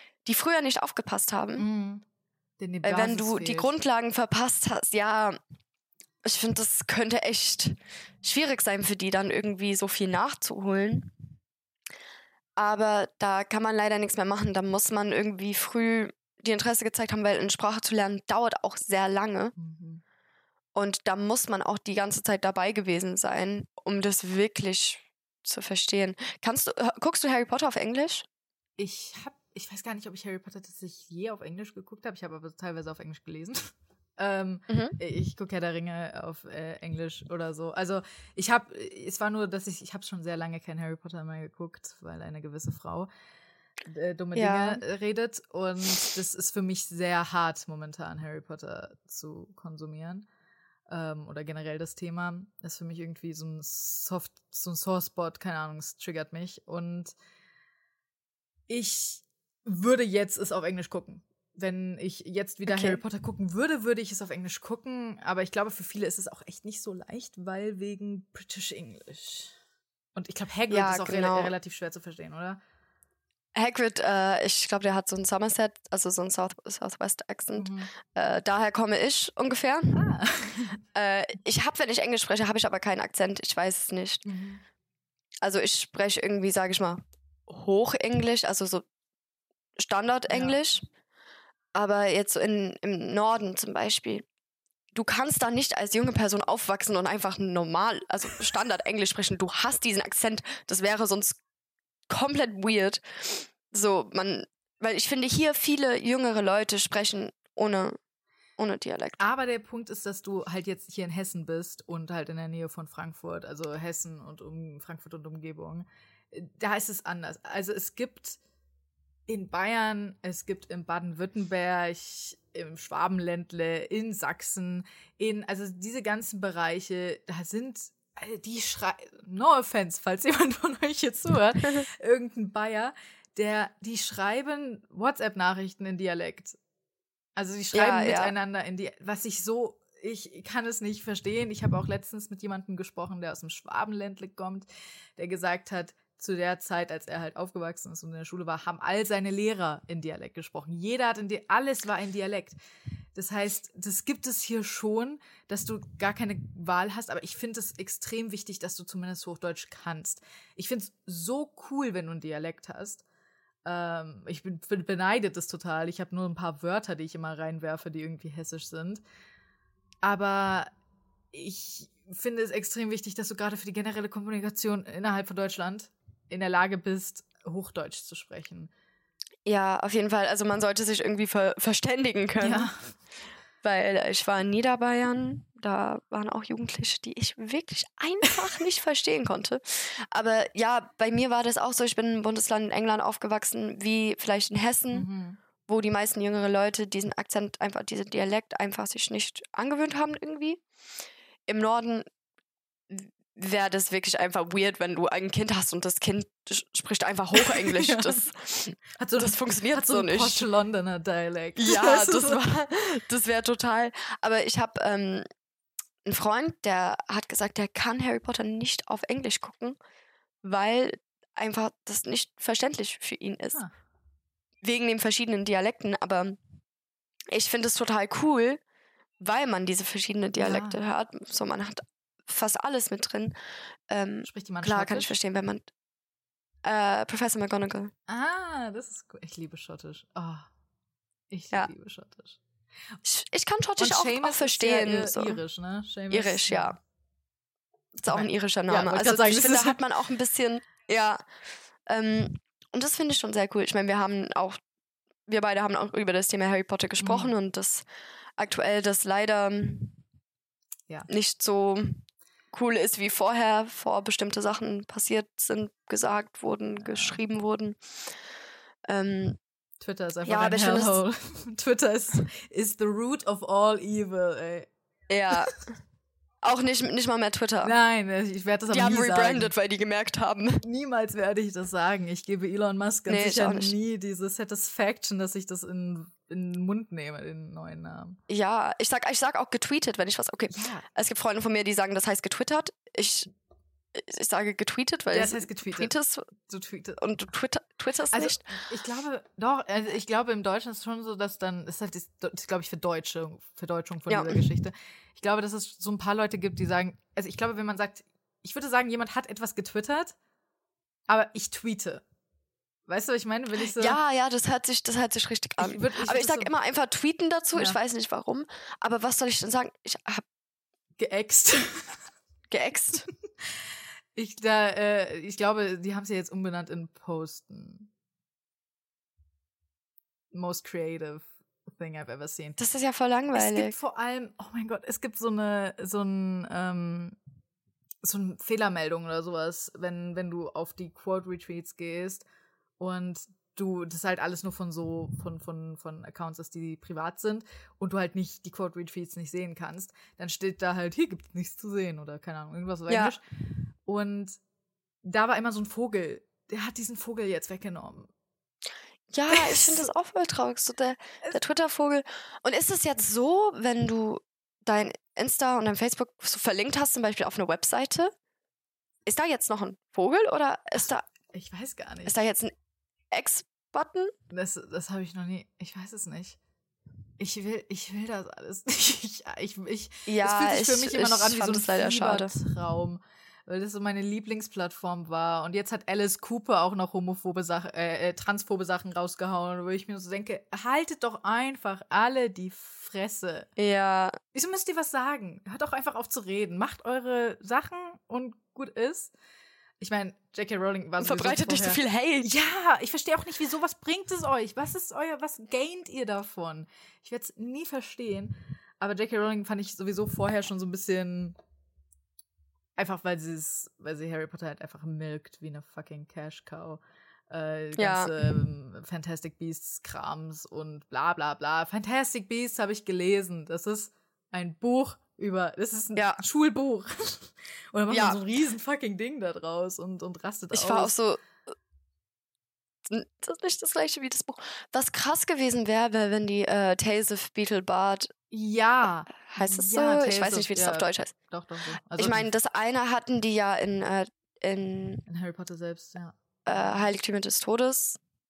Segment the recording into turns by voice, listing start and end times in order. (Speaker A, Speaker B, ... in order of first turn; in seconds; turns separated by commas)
Speaker A: 0.2-1.6, Speaker B: 1.6-2.0, Speaker B: 2.6-3.7, Speaker A: 2.8-5.4, Speaker A: 6.2-11.1, Speaker A: 12.6-19.5, Speaker B: 19.6-20.0, Speaker A: 20.7-28.2, Speaker B: 28.8-43.1, Speaker A: 34.7-35.0, Speaker B: 43.9-50.2, Speaker A: 44.4-44.8, Speaker B: 50.9-57.1, Speaker B: 58.7-69.5, Speaker A: 62.7-63.0, Speaker B: 70.1-72.6, Speaker A: 70.7-71.5, Speaker A: 73.5-80.1, Speaker B: 77.5-77.9, Speaker B: 79.9-80.8, Speaker A: 80.9-84.2, Speaker B: 84.2-84.6, Speaker A: 85.4-88.8, Speaker A: 89.8-90.8, Speaker B: 90.3-90.6, Speaker A: 91.7-94.2, Speaker A: 94.9-101.4, Speaker A: 102.1-108.0, Speaker A: 108.6-109.2, Speaker B: 109.2-118.4, Speaker B: 119.3-136.6, Speaker B: 137.4-152.6, Speaker A: 137.7-138.3, Speaker B: 153.1-163.0, Speaker B: 163.6-169.0, Speaker B: 170.0-170.7, Speaker B: 171.3-178.7, Speaker A: 179.4-182.7, Speaker B: 182.4-182.7, Speaker A: 183.6-195.1, Speaker B: 194.9-195.4, Speaker A: 195.7-200.6, Speaker A: 201.5-202.0, Speaker A: 202.9-210.5, Speaker B: 207.4-208.2, Speaker B: 209.0-212.4, Speaker A: 211.6-215.3, Speaker A: 216.0-219.8, Speaker A: 220.4-223.6, Speaker A: 224.6-226.4, Speaker A: 227.3-228.6, Speaker A: 229.2-233.3, Speaker B: 230.3-230.8, Speaker A: 233.9-235.7, Speaker B: 234.2-235.1, Speaker A: 236.6-237.9, Speaker B: 238.1-240.5, Speaker B: 241.3-242.4, Speaker A: 243.0-245.4, Speaker B: 243.8-246.8, Speaker A: 246.1-246.8, Speaker A: 248.0-251.2, Speaker B: 248.1-249.8, Speaker A: 251.9-254.6, Speaker A: 255.3-257.8, Speaker B: 257.0-257.3, Speaker A: 258.4-260.0, Speaker A: 261.1-267.8, Speaker B: 266.8-267.2, Speaker A: 268.9-269.4, Speaker B: 269.8-274.7, Speaker A: 270.2-271.0, Speaker A: 275.1-275.6, Speaker A: 276.4-277.7, Speaker B: 277.6-279.5, Speaker A: 278.7-280.6, Speaker B: 280.6-288.2, Speaker A: 283.1-283.7, Speaker A: 288.3-293.3, Speaker B: 290.5-290.8, Speaker A: 293.9-296.2, Speaker B: 295.1-297.0, Speaker A: 297.0-298.5, Speaker B: 298.1-310.1, Speaker A: 304.1-304.4, Speaker B: 311.1-312.0, Speaker B: 312.9-314.0, Speaker A: 313.8-320.2, Speaker B: 315.6-316.5, Speaker B: 321.0-322.0, Speaker A: 322.5-323.1, Speaker B: 324.1-327.9, Speaker B: 330.3-332.6, Speaker A: 332.6-333.7, Speaker B: 333.3-337.1, Speaker B: 338.0-342.2, Speaker B: 342.8-353.2, Speaker A: 352.9-353.1, Speaker B: 353.9-354.4, Speaker B: 355.0-358.1, Speaker A: 359.1-368.1, Speaker B: 359.3-359.8, Speaker A: 369.1-371.1, Speaker B: 371.3-372.1, Speaker A: 372.1-372.5, Speaker A: 373.1-374.1, Speaker B: 374.3-376.4, Speaker B: 377.2-393.5, Speaker A: 380.1-382.3, Speaker A: 393.6-394.2, Speaker B: 394.3-399.1, Speaker B: 399.8-411.4, Speaker A: 401.0-402.3, Speaker B: 412.8-430.9, Speaker A: 417.8-418.3, Speaker A: 427.9-428.2, Speaker A: 430.5-431.2, Speaker A: 432.9-438.1, Speaker B: 438.3-442.3, Speaker A: 439.3-441.1, Speaker A: 442.0-445.0, Speaker B: 445.1-446.8, Speaker A: 446.4-448.0